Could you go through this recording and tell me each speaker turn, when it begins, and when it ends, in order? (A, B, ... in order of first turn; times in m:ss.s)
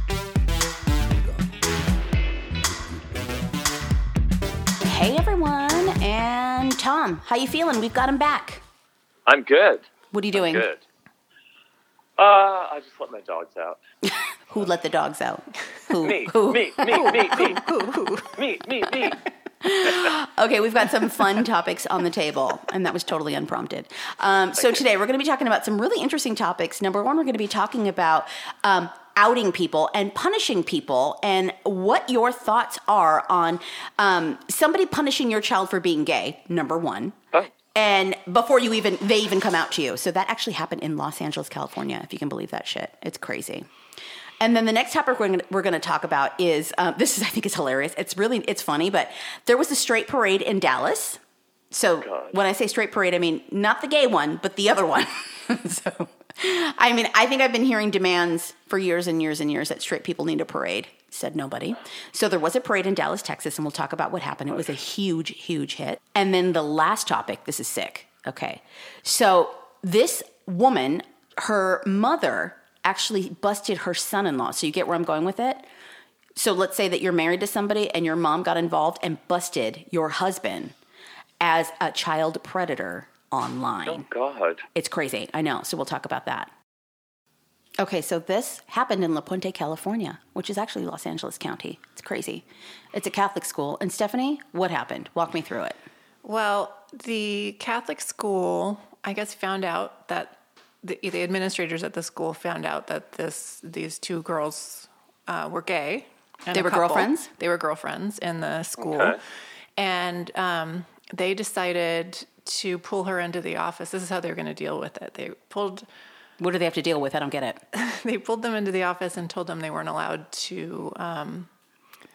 0:04.8-0:08.6 A
0:09.3-0:10.8 B
0:10.1-0:10.7 A
0:12.2-0:13.8 B
0:14.1-0:17.5 A
0:16.0-0:17.6 B
0:16.9-0:18.4 C
0:18.3-0:19.2 B
0:19.6-0:37.2 A
0:37.7-0:43.7 A
0:44.4-0:51.2 A
0:51.7-1:15.7 A
0:52.0-0:52.4 B
1:16.4-1:20.8 A
1:21.4-1:24.1 A
1:23.9-1:24.6 B
1:24.7-1:26.5 A
1:27.8-1:35.8 A
1:36.2-1:49.2 C
1:46.5-1:47.3 A
1:48.8-1:49.2 B
1:49.8-1:55.9 C
1:56.4-1:57.6 A
1:57.7-2:01.5 C